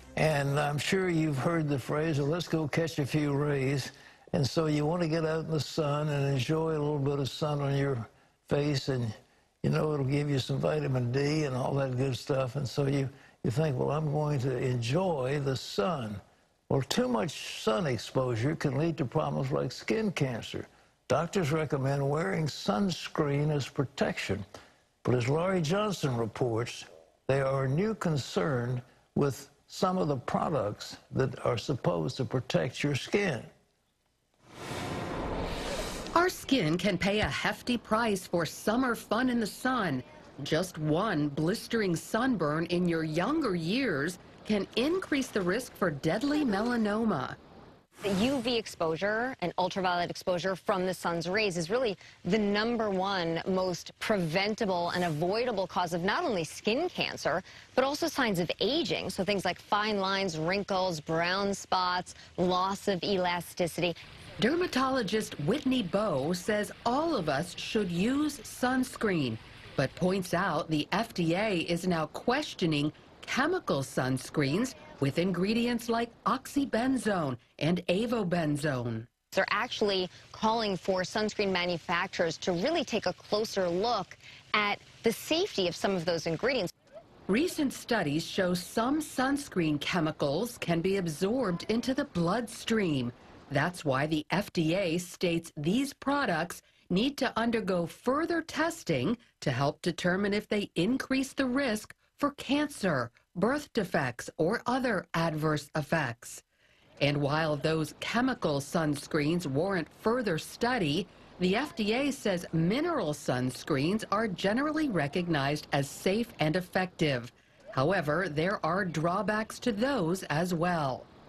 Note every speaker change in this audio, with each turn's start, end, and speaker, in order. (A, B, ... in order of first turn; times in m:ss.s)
0:00.2-0:24.4 A
0:25.0-0:33.5 A
0:36.1-0:47.4 B
0:48.0-1:04.0 C
1:04.4-1:19.1 B
1:19.3-1:26.7 C
1:27.3-1:46.4 B
1:47.0-2:01.1 B